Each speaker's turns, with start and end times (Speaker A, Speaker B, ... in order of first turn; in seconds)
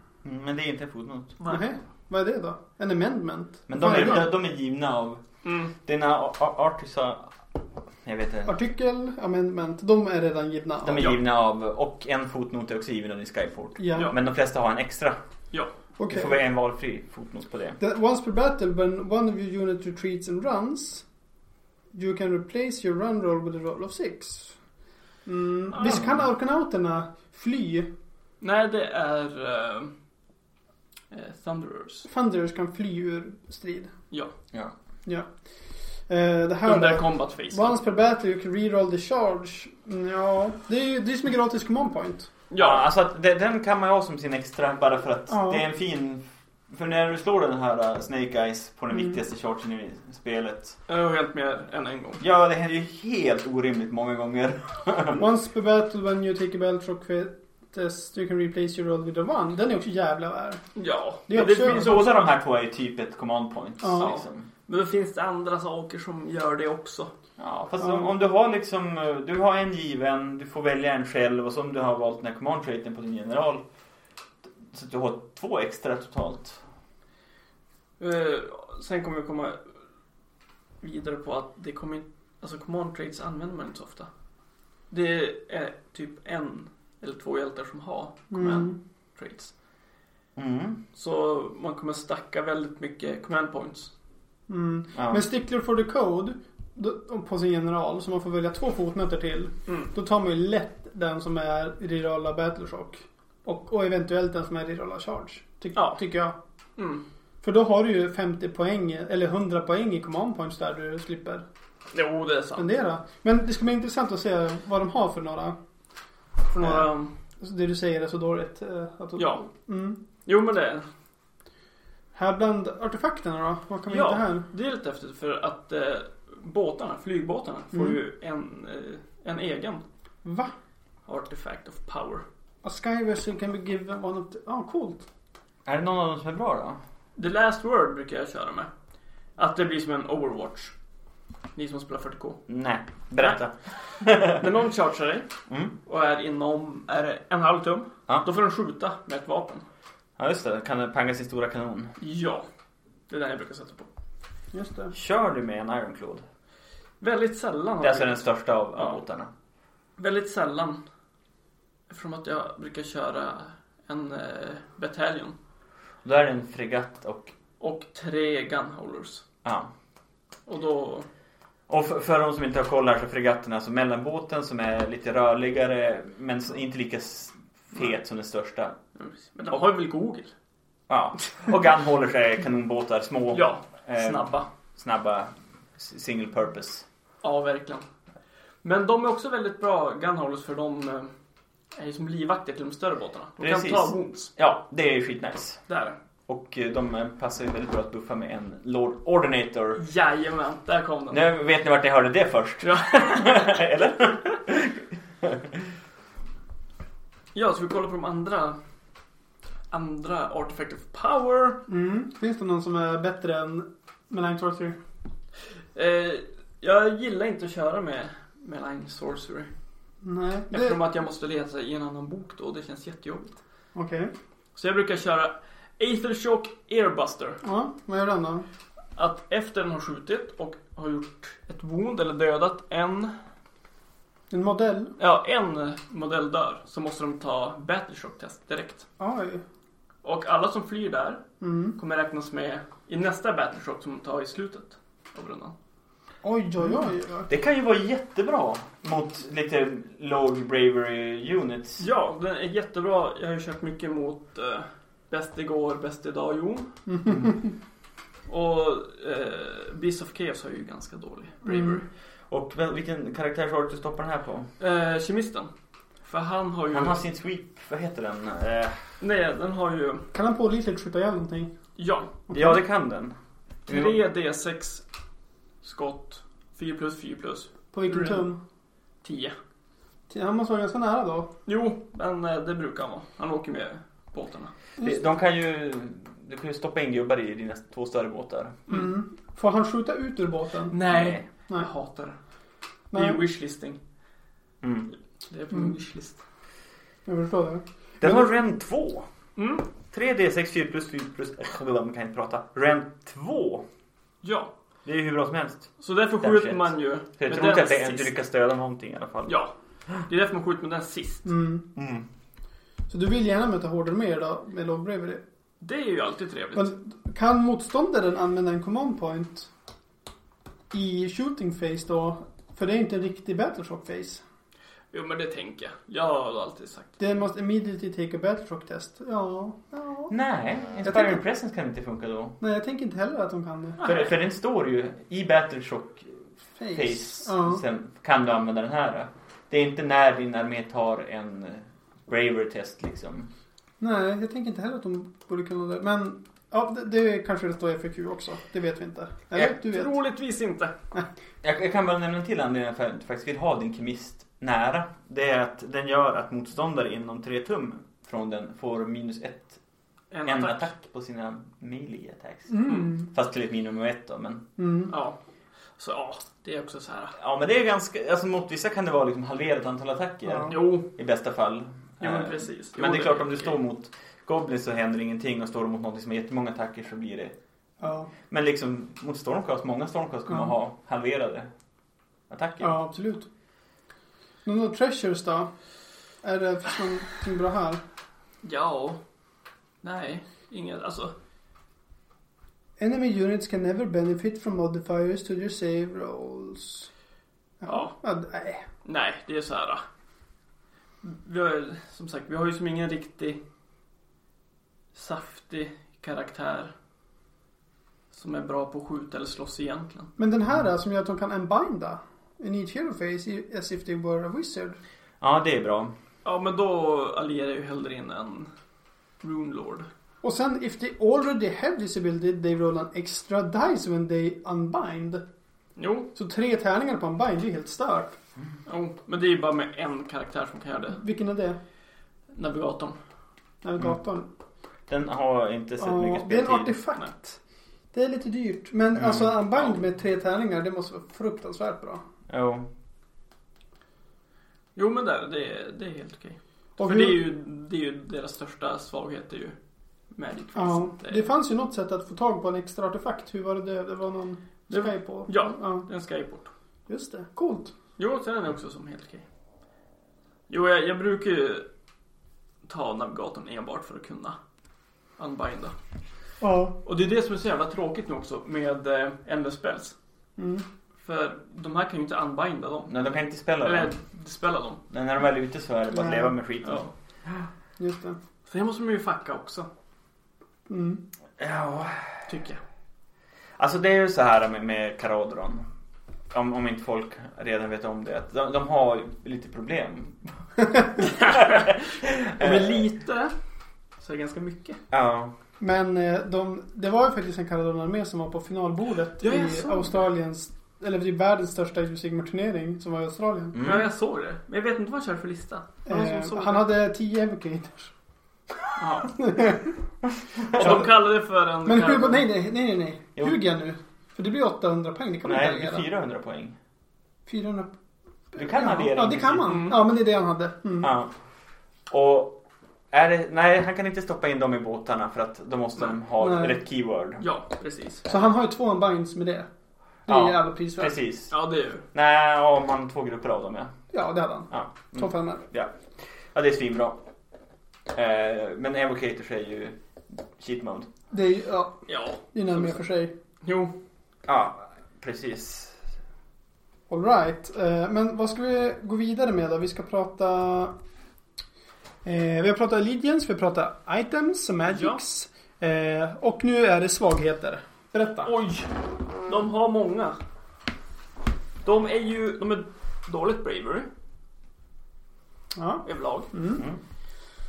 Speaker A: 0.2-1.4, 3.7-5.2, 5.8-7.3, 8.0-8.6, 10.8-15.2, 16.1-17.8, 42.6-50.8, 52.2-55.2, 61.4-64.5, 67.4-73.6, 74.7-76.6, 90.4-90.8, 95.0-95.2, 135.7-136.8, 142.5-144.4, 145.5-145.7, 150.2-151.9, 154.9-156.2, 157.8-159.3, 166.1-167.3, 169.4-169.7, 171.7-178.8, 180.9-186.8, 193.4-195.6, 196.3-199.8, 201.1-205.5, 247.3-251.8, 262.3-264.5, 266.7-268.9, 272.3-273.2, 273.7-274.0, 284.8-288.6, 290.9-291.2, 294.6-294.9, 298.0-299.1, 299.9-303.6, 304.9-309.4, 311.8-312.1, 330.1-332.4, 333.8-343.3, 351.4-359.6, 360.3-364.4, 367.2-377.3, 378.3-381.5, 382.3-382.8, 415.2-415.9, 434.9-436.8, 439.0-439.3, 442.3-442.7, 472.9-473.9, 474.9-476.8, 481.4-482.3, 483.6-485.7, 486.3-490.3, 491.0-492.8, 494.9-495.3, 503.5-503.9, 515.2-516.6, 518.4-519.6, 520.8-521.1, 521.9-522.4, 522.9-527.2, 530.1-531.3, 531.9-533.7, 534.5-535.7, 536.3-537.0, 537.9-539.8, 540.4-540.9, 544.3-545.8
Speaker B: 1.5-4.3, 8.5-11.1, 13.8-14.1, 16.0-16.4, 17.8-21.1, 21.9-24.6, 25.2-27.9, 32.1-33.9, 36.1-42.3, 45.3-45.6, 55.2-60.6, 61.3-62.1, 63.8-64.1, 67.8-68.1, 88.3-88.8, 94.5-106.4, 107.4-111.4, 112.6-115.6, 116.6-116.9, 117.4-120.0, 122.2-124.5, 130.2-130.5, 132.6-135.1, 154.5-154.9, 211.7-214.8, 220.0-220.8, 223.8-224.1, 227.4-228.5, 234.3-234.9, 239.0-239.4, 241.4-241.8, 246.2-247.3, 256.9-257.5, 261.5-261.8, 270.1-271.5, 272.3-272.6, 277.7-278.4, 280.1-281.3, 288.7-290.8, 292.9-293.2, 297.1-298.2, 311.2-311.7, 312.9-315.2, 316.6-319.5, 320.7-324.2, 327.0-330.1, 330.9-331.2, 332.4-333.8, 336.6-337.6, 343.8-349.9, 362.5-363.1, 364.6-364.9, 370.3-370.5, 377.8-378.1, 382.6-383.3, 384.4-385.5, 386.2-387.8, 392.8-396.9, 397.6-398.6, 410.2-414.8, 420.2-425.2, 426.1-428.2, 430.9-431.6, 433.6-434.3, 435.8-437.4, 437.9-442.0, 446.8-447.3, 450.6-455.9, 456.9-457.7, 466.4-466.8, 470.4-470.6, 475.9-476.3, 477.8-478.2, 480.7-481.0, 495.6-503.6, 505.9-507.9, 509.1-509.8, 510.5-510.9, 511.6-515.9, 517.3-517.7, 518.3-520.9, 526.2-526.6, 528.1-529.5, 530.1-530.9, 533.9-535.4, 541.1-543.1, 546.9-550.7, 552.0-558.3, 565.5-566.6
Speaker C: 5.4-5.7, 25.7-26.0, 28.4-29.9, 31.1-32.1, 36.6-37.8, 42.5-42.9, 50.9-52.2, 60.8-62.2, 64.0-67.1, 78.0-79.6, 80.8-84.1, 84.9-89.5, 90.9-93.9, 105.7-106.0, 106.8-107.0, 111.9-112.7, 116.5-117.1, 119.2-119.4, 120.2-120.9, 123.9-129.8, 131.1-132.2, 137.2-138.7, 139.4-140.7, 141.6-142.4, 144.3-145.3, 145.8-149.7, 152.0-152.5, 153.1-153.9, 157.0-159.0, 160.0-160.8, 161.9-165.4, 167.6-169.2, 170.5-171.1, 179.0-180.3, 183.3-184.5, 187.2-187.9, 188.6-191.1, 191.8-194.3, 195.7-196.0, 199.8-201.2, 202.6-203.4, 207.3-208.6, 209.7-211.6, 215.8-219.5, 220.5-223.4, 224.6-227.4, 229.0-233.1, 235.0-238.9, 240.0-241.2, 241.8-245.5, 251.8-256.7, 258.3-261.9, 264.6-265.5, 266.1-267.0, 269.0-270.1, 271.8-272.1, 273.7-274.8, 275.6-278.2, 279.0-279.4, 281.5-284.5, 290.7-292.2, 292.9-293.8, 295.3-296.2, 299.4-299.7, 304.2-304.5, 305.8-308.1, 309.3-309.5, 310.1-311.3, 315.6-316.7, 324.9-327.0, 333.8-334.1, 349.3-350.7, 360.1-360.7, 364.9-365.2, 365.8-367.2, 370.5-370.9, 372.0-373.6, 388.4-389.0, 389.8-391.1, 397.7-397.9, 398.9-399.8, 401.0-403.4, 404.9-406.7, 408.1-410.1, 416.2-418.5, 419.2-419.9, 425.8-426.1, 428.7-431.0, 432.3-433.0, 444.8-449.6, 450.1-451.3, 454.7-456.5, 458.0-459.2, 460.5-461.7, 462.6-464.4, 465.2-465.8, 466.8-469.9, 471.0-472.9, 473.6-474.8, 476.6-476.9, 478.5-479.7, 482.3-482.6, 491.1-491.6, 492.4-493.3, 494.0-494.8, 499.2-499.9, 503.6-506.7, 508.8-509.1, 510.5-512.2, 519.5-519.8, 527.2-528.1, 531.3-531.8, 541.9-542.8, 543.4-543.7, 554.7-555.0, 558.2-560.2, 561.6-563.9, 565.9-566.3